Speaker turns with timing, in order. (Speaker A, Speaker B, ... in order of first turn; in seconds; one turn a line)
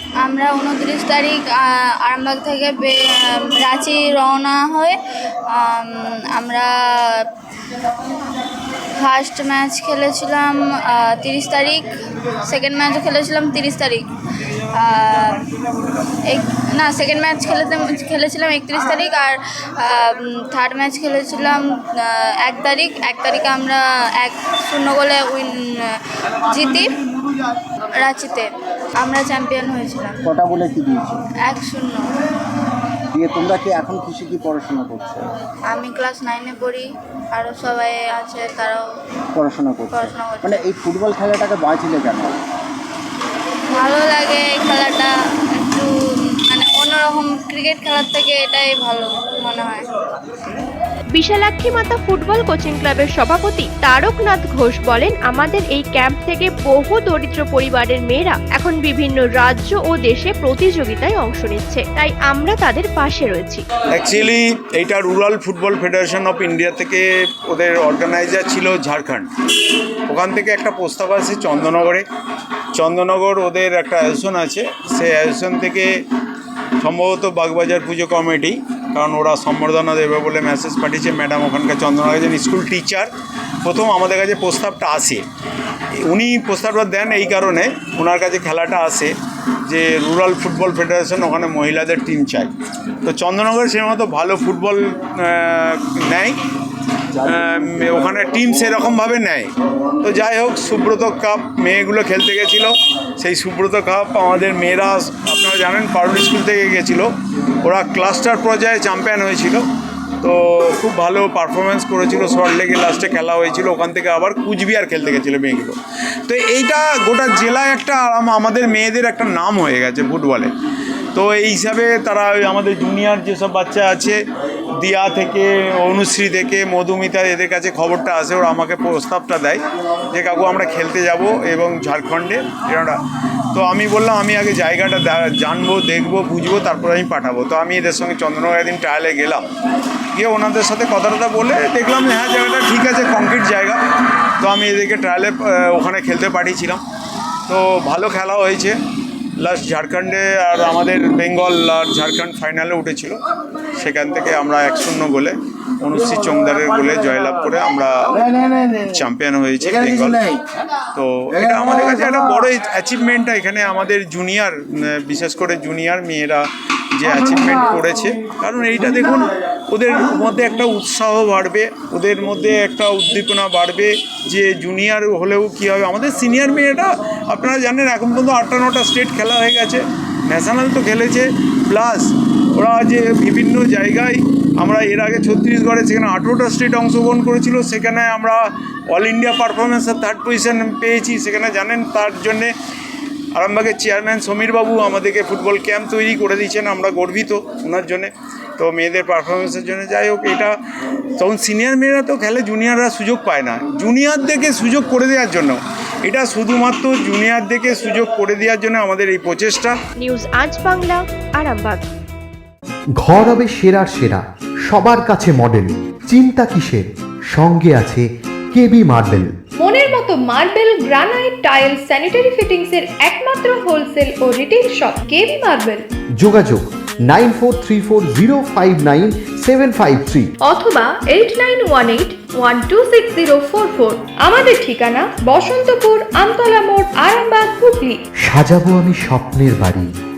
Speaker A: 0.2-5.0
Speaker A: 5.5-7.3
Speaker A: 9.0-11.9
Speaker A: 12.4-14.1
Speaker A: 14.7-15.4
Speaker A: 16.3-25.9
Speaker A: 26.4-26.9
Speaker A: 28.0-30.2
Speaker B: 30.2-31.2
Speaker A: 31.4-32.1
Speaker B: 33.1-35.3
Speaker A: 35.7-38.8
Speaker B: 39.3-42.4
Speaker A: 39.9-40.6
Speaker A: 43.7-45.1
Speaker A: 45.6-49.8
Speaker C: 51.1-63.7
Speaker D: 63.9-69.3
Speaker D: 70.0-72.0
Speaker D: 72.7-75.9
Speaker D: 76.8-83.1
Speaker D: 83.6-85.2
Speaker D: 86.0-89.1
Speaker D: 89.7-96.4
Speaker D: 97.2-107.1
Speaker D: 107.6-109.6
Speaker D: 110.2-120.5
Speaker D: 121.1-124.2
Speaker D: 124.7-133.0
Speaker D: 133.5-139.4
Speaker D: 140.1-143.8
Speaker D: 144.4-146.8
Speaker D: 147.5-148.8
Speaker D: 149.4-153.2
Speaker D: 153.8-158.2
Speaker D: 158.8-160.3
Speaker D: 160.9-166.4
Speaker D: 167.0-192.5
Speaker D: 193.3-200.6
Speaker D: 201.2-209.8
Speaker C: 210.0-211.9
Speaker E: 213.0-219.3
Speaker F: 219.6-225.8
Speaker E: 226.2-230.3
Speaker F: 230.4-238.0
Speaker E: 238.2-239.9